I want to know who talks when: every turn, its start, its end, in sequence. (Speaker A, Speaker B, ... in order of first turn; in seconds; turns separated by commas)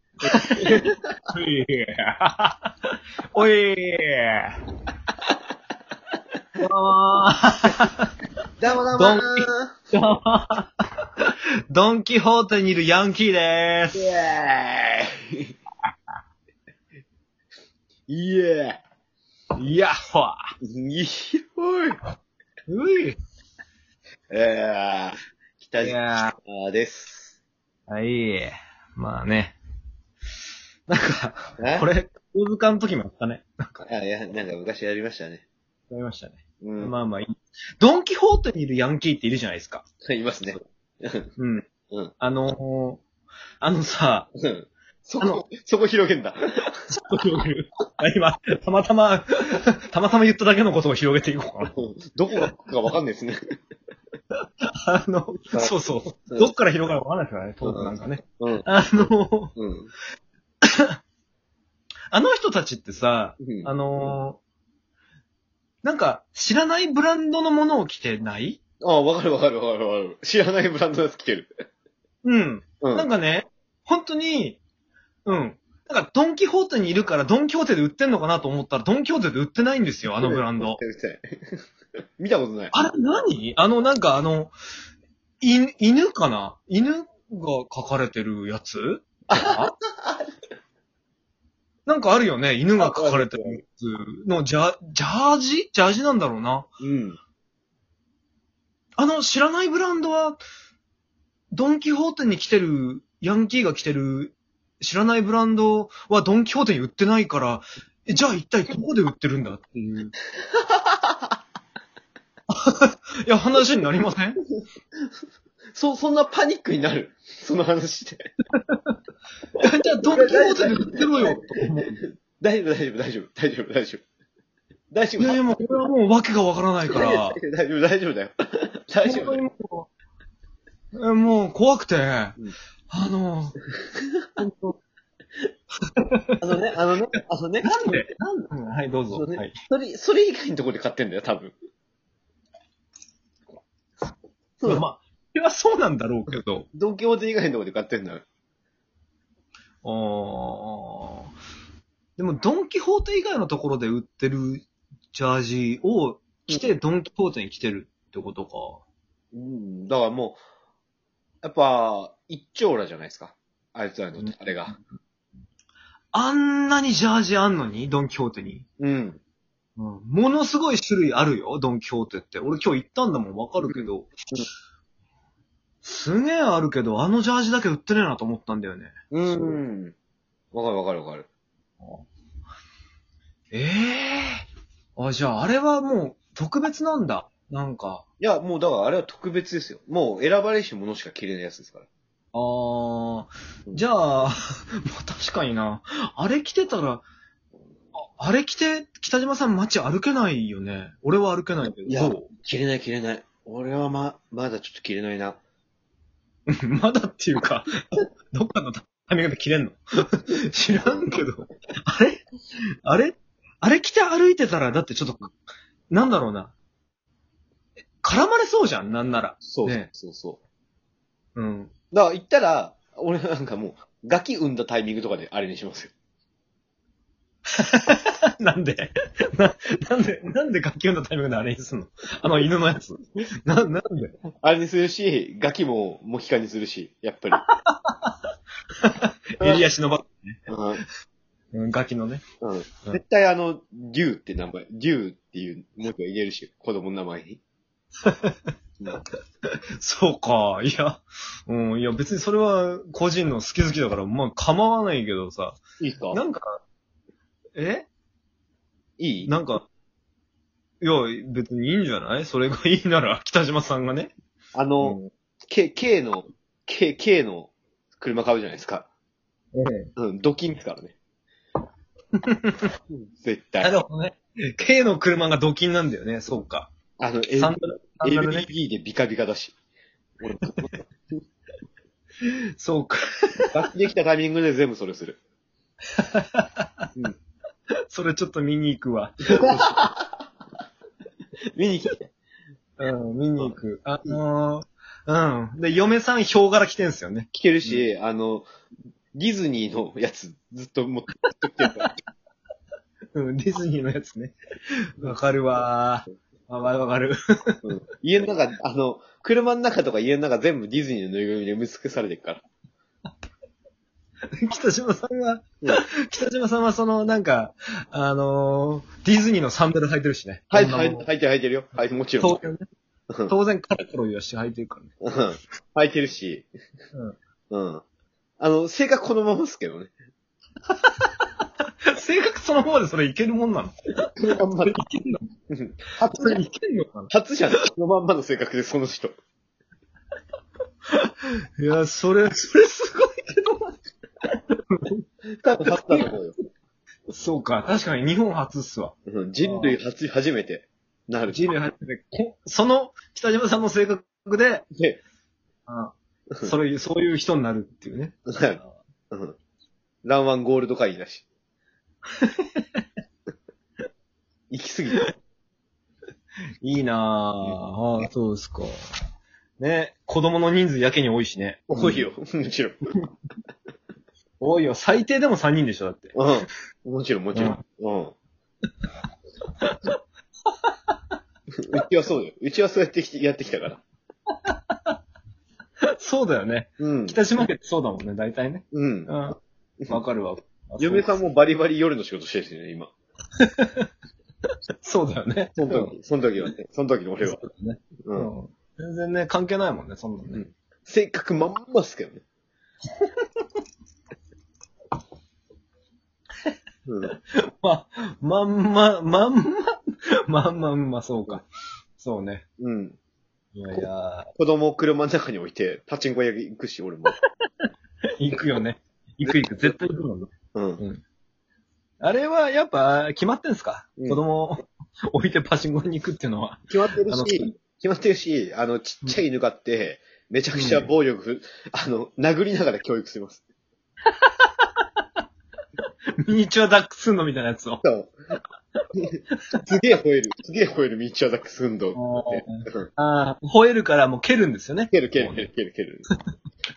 Speaker A: 0.2-2.7, Speaker B: 0.2-1.0, Speaker A: 3.3-4.5, Speaker A: 6.6-8.1, Speaker B: 8.6-9.7, Speaker A: 8.9-14.1, Speaker B: 13.9-15.5, Speaker B: 18.1-18.8, Speaker A: 19.6-20.4, Speaker B: 20.6-22.0, Speaker A: 22.7-23.1, Speaker B: 24.3-27.3, Speaker A: 25.8-26.3, Speaker A: 27.9-29.6, Speaker A: 30.9-33.9, Speaker B: 31.6-31.9, Speaker B: 33.9-35.4, Speaker A: 35.9-39.8, Speaker B: 36.6-36.9, Speaker B: 40.0-41.3, Speaker A: 41.4-41.7, Speaker A: 42.2-43.0, Speaker A: 43.6-44.3, Speaker B: 44.4-46.8, Speaker A: 46.9-51.7, Speaker B: 51.7-53.4, Speaker A: 54.6-59.5, Speaker B: 55.5-56.5, Speaker B: 57.6-58.7, Speaker B: 59.5-59.9, Speaker A: 62.1-64.4, Speaker B: 63.4-63.7, Speaker A: 65.8-68.6, Speaker B: 68.8-71.5, Speaker A: 72.2-74.6, Speaker B: 72.8-73.1, Speaker A: 75.2-80.8, Speaker B: 80.1-81.6, Speaker B: 82.2-82.7, Speaker A: 82.7-84.5, Speaker A: 85.4-89.7, Speaker B: 89.3-90.3, Speaker A: 91.8-96.7, Speaker B: 92.8-93.6, Speaker B: 96.8-97.2, Speaker A: 99.0-100.4, Speaker A: 101.5-110.1, Speaker B: 110.8-111.1, Speaker A: 112.5-114.4, Speaker B: 115.7-118.3, Speaker A: 119.6-122.0, Speaker B: 120.0-124.0, Speaker B: 124.9-125.5, Speaker A: 125.2-127.4, Speaker B: 126.9-129.4, Speaker A: 129.0-129.9, Speaker A: 130.9-132.4, Speaker A: 132.9-133.6, Speaker A: 134.4-134.8, Speaker A: 136.0-136.3, Speaker B: 136.4-138.1, Speaker A: 137.6-139.6, Speaker B: 139.1-141.5, Speaker A: 144.6-146.7, Speaker B: 146.3-148.2, Speaker A: 149.8-151.3, Speaker A: 152.2-158.8, Speaker B: 159.3-160.4, Speaker B: 161.4-164.7, Speaker A: 164.2-164.8, Speaker A: 166.1-168.7, Speaker B: 168.8-169.2, Speaker A: 169.8-174.1, Speaker B: 173.6-174.4, Speaker A: 175.8-178.9, Speaker B: 179.1-179.9, Speaker B: 180.5-181.3, Speaker A: 183.5-184.4, Speaker A: 184.9-188.0, Speaker B: 188.2-191.9, Speaker A: 192.3-197.0, Speaker A: 198.0-202.3, Speaker B: 201.8-205.4, Speaker A: 206.5-212.2, Speaker B: 210.7-211.2, Speaker A: 212.8-215.3, Speaker A: 215.9-216.5, Speaker A: 218.0-219.9, Speaker B: 219.4-220.4, Speaker A: 221.3-221.7, Speaker B: 221.9-225.9, Speaker A: 227.5-234.1, Speaker B: 234.4-237.4, Speaker A: 237.4-238.1, Speaker A: 238.8-240.4, Speaker B: 240.5-240.8, Speaker A: 241.5-242.2, Speaker B: 242.4-247.4, Speaker A: 248.0-248.3, Speaker A: 249.8-255.6, Speaker B: 255.8-256.2, Speaker A: 256.1-256.6, Speaker A: 257.6-257.9, Speaker B: 259.0-259.4, Speaker A: 259.2-259.6, Speaker A: 260.8-264.1, Speaker B: 264.5-268.9, Speaker A: 264.8-265.1, Speaker A: 269.5-269.9, Speaker B: 270.0-270.9, Speaker A: 272.3-272.7, Speaker B: 272.9-273.7, Speaker A: 273.6-276.7, Speaker B: 277.0-279.5, Speaker A: 277.4-278.5, Speaker B: 280.2-280.7, Speaker A: 282.2-283.5, Speaker B: 283.5-285.2, Speaker A: 286.0-286.9, Speaker A: 287.9-289.8, Speaker B: 289.3-290.0, Speaker B: 291.5-292.1, Speaker A: 292.8-297.9, Speaker B: 293.4-294.2, Speaker B: 297.3-298.5, Speaker B: 299.1-301.9, Speaker A: 301.6-301.9, Speaker A: 303.1-307.6, Speaker B: 307.6-312.4, Speaker A: 314.4-321.1, Speaker B: 320.5-322.4, Speaker A: 322.2-322.6, Speaker B: 323.1-323.3, Speaker A: 323.3-324.9, Speaker B: 325.0-326.5, Speaker B: 327.5-327.8, Speaker B: 328.4-329.9, Speaker A: 330.8-331.1, Speaker A: 331.9-335.2, Speaker B: 334.1-334.8, Speaker B: 335.5-336.4, Speaker A: 335.9-337.1, Speaker B: 337.1-339.1, Speaker A: 340.9-343.7, Speaker A: 344.3-345.0, Speaker B: 345.4-346.3, Speaker A: 345.6-346.1, Speaker A: 347.1-349.7, Speaker B: 349.1-351.5, Speaker A: 351.3-354.6, Speaker A: 355.7-358.7, Speaker B: 358.3-358.6, Speaker B: 359.1-359.4, Speaker B: 360.0-361.2, Speaker A: 362.2-362.6, Speaker B: 364.5-365.1, Speaker A: 366.6-368.7, Speaker A: 369.6-372.1, Speaker B: 371.7-372.8, Speaker A: 374.4-376.1, Speaker B: 376.1-378.1, Speaker A: 377.3-377.6, Speaker A: 379.6-379.9, Speaker B: 381.6-383.8, Speaker A: 384.5-384.9, Speaker A: 385.9-389.4, Speaker B: 386.8-387.2, Speaker B: 388.7-389.1, Speaker A: 389.9-391.2, Speaker B: 390.8-392.9, Speaker A: 393.4-393.9, Speaker A: 394.8-395.9, Speaker B: 395.6-397.4, Speaker A: 397.2-400.4, Speaker B: 398.0-398.3, Speaker B: 400.3-402.2, Speaker B: 406.9-407.1, Speaker A: 407.1-412.4, Speaker B: 412.6-413.0, Speaker A: 413.5-414.3, Speaker B: 414.4-417.1, Speaker A: 418.2-421.0, Speaker B: 420.5-420.8, Speaker A: 422.0-427.5, Speaker B: 424.0-424.2, Speaker B: 426.7-433.4, Speaker A: 430.5-430.9, Speaker A: 434.4-434.8, Speaker A: 436.2-437.8, Speaker B: 437.8-438.1, Speaker B: 439.0-442.9, Speaker A: 441.9-445.5, Speaker B: 444.9-446.1